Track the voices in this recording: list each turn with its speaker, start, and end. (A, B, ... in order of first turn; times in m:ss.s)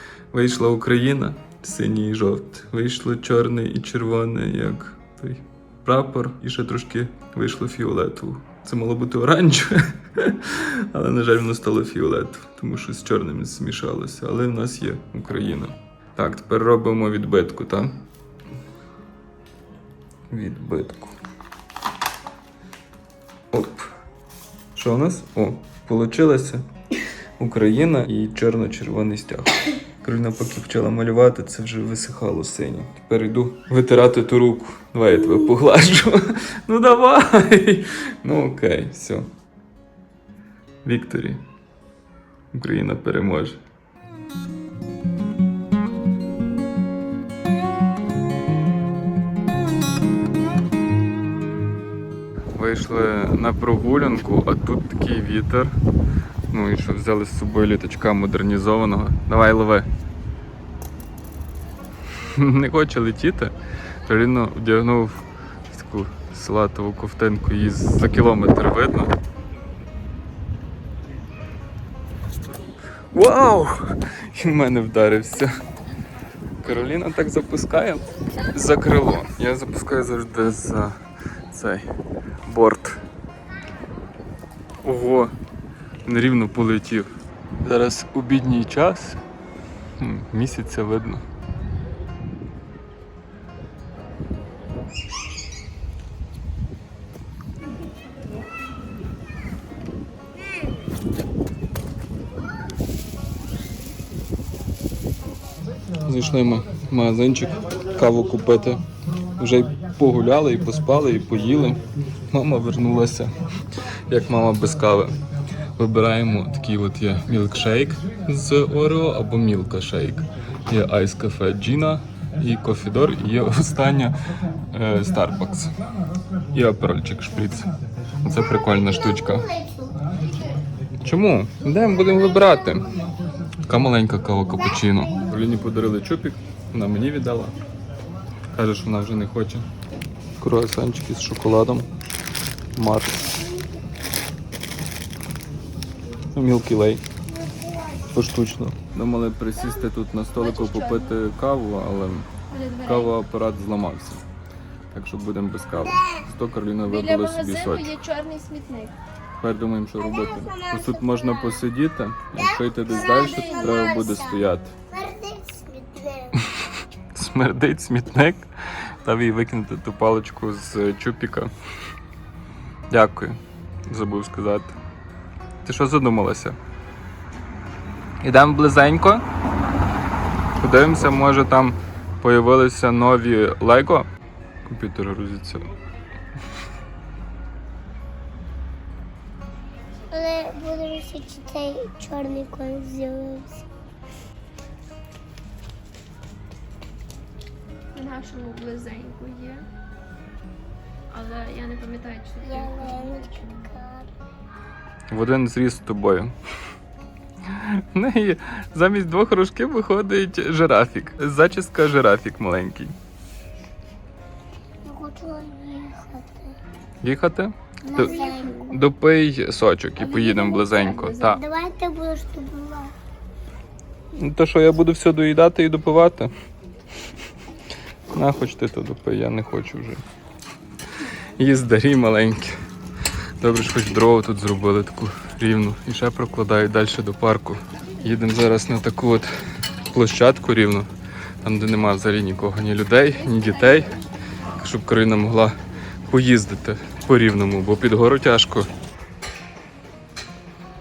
0:00.3-0:17.9 A
0:20.3-0:21.1 A
0:23.5-0:23.9 A
0:24.7-0:26.6 A
0:27.4-0:39.3 A
0:40.8-0:41.4 A
0:42.5-0:43.6 A
0:52.6-0:55.7 A
0:56.5-0:59.9 A
1:02.2-1:03.5 A
1:04.0-1:09.1 A
1:13.1-1:13.8 A
1:14.3-1:15.5 A
1:16.6-1:20.9 A
1:21.5-1:21.9 A
1:22.4-1:23.0 A
1:24.8-1:25.3 A
1:26.0-1:27.1 A
1:27.6-1:29.2 A
1:30.0-1:31.2 A
1:46.0-1:48.8 A
1:49.4-1:53.3 A
1:54.1-1:55.2 A
1:55.8-2:04.1 A
2:04.7-2:05.7 A
2:06.5-2:07.7 A
2:08.2-2:09.5 A
2:08.9-2:10.0 B
2:11.0-2:12.9 A
2:13.6-2:17.6 A
2:18.5-2:19.7 A
2:20.4-2:21.9 A
2:22.7-2:23.3 A
2:23.4-2:23.7 B
2:26.3-2:27.0 A
2:27.3-2:28.1 B
2:28.1-2:32.3 A
2:29.6-2:29.8 C
2:30.4-2:31.1 C
2:32.5-2:33.1 C
2:32.8-2:34.2 A
2:34.9-2:37.9 A
2:36.8-2:39.0 C
2:39.4-2:44.7 A
2:40.0-2:41.6 B
2:42.3-2:46.4 B
2:43.1-2:43.6 C
2:47.1-2:48.5 A
2:49.0-2:51.5 A
2:52.9-2:54.7 A
2:55.6-2:56.6 A
2:58.2-2:59.2 A
3:00.6-3:04.1 A
3:04.6-3:05.7 A
3:10.1-3:13.6 B
3:17.9-3:19.7 C
3:21.1-3:23.5 C
3:22.4-3:24.1 B
3:25.1-3:26.3 A
3:27.5-3:32.9 A
3:34.8-3:36.5 B
3:37.0-3:41.4 A
3:37.8-3:38.8 B
3:38.0-3:38.4 C
3:40.0-3:41.4 C
3:41.2-3:42.9 B
3:44.2-3:46.3 A
3:48.1-3:50.0 A
3:51.4-3:52.5 A
3:53.4-3:59.3 A
3:59.9-4:00.9 A
4:01.4-4:04.0 A
4:03.1-4:04.0 C
4:04.6-4:05.6 A
4:06.1-4:08.7 A